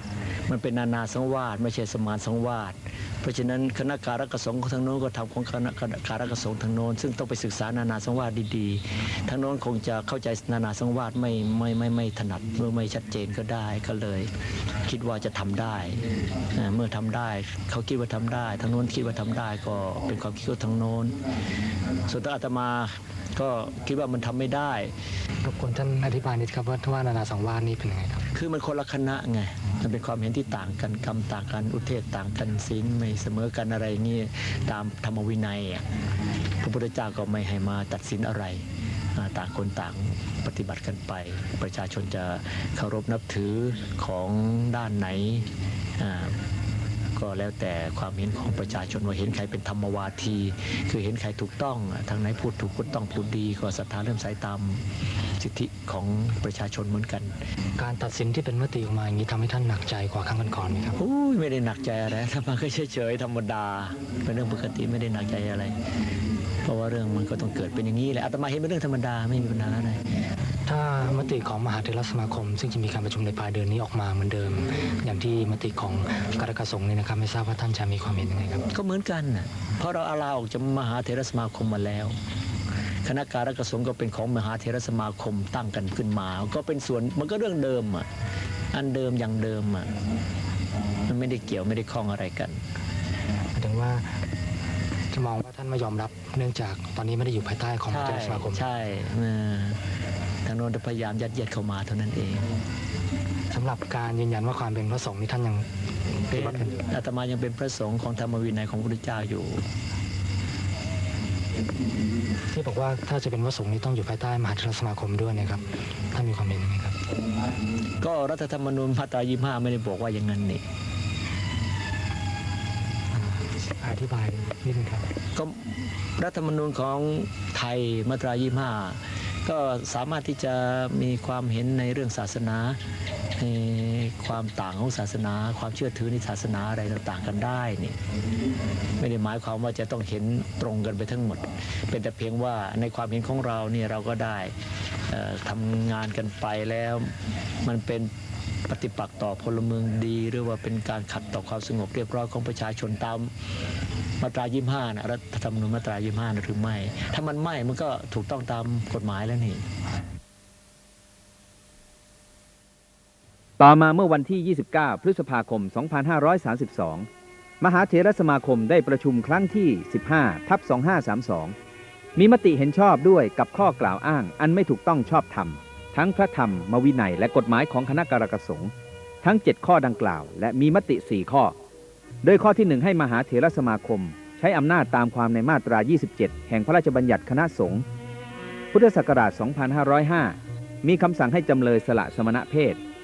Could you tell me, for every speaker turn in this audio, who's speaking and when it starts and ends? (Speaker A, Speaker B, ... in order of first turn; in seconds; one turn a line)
Speaker A: 0.5-14.3
Speaker A: 14.8-21.2
Speaker A: 22.1-24.9
Speaker B: 25.4-28.2
Speaker A: 28.3-35.8
Speaker A: 36.6-38.6
Speaker A: 39.1-46.4
Speaker A: 47.1-54.8
Speaker A: 55.4-57.4
Speaker B: 57.8-61.0
Speaker A: 61.0-65.8
Speaker A: 66.6-70.0
Speaker B: 70.7-78.7
Speaker A: 78.7-82.1
Speaker A: 83.0-88.1
Speaker A: 88.7-90.0
Speaker A: 91.1-92.6
Speaker B: 93.5-94.2
Speaker B: 95.1-98.6
Speaker A: 97.9-99.8
Speaker A: 100.4-102.5
Speaker B: 103.5-106.7
Speaker A: 106.3-109.6
Speaker B: 112.5-117.0
Speaker A: 118.0-120.6
Speaker B: 123.1-125.1
Speaker A: 125.3-132.8
Speaker A: 133.4-138.0
Speaker A: 139.0-144.5
Speaker A: 145.1-148.1
Speaker A: 148.7-153.3
Speaker A: 154.2-159.6
Speaker C: 163.6-167.1
Speaker C: 167.6-171.6
Speaker C: 172.2-181.6
Speaker C: 182.2-187.8
Speaker C: 188.7-192.8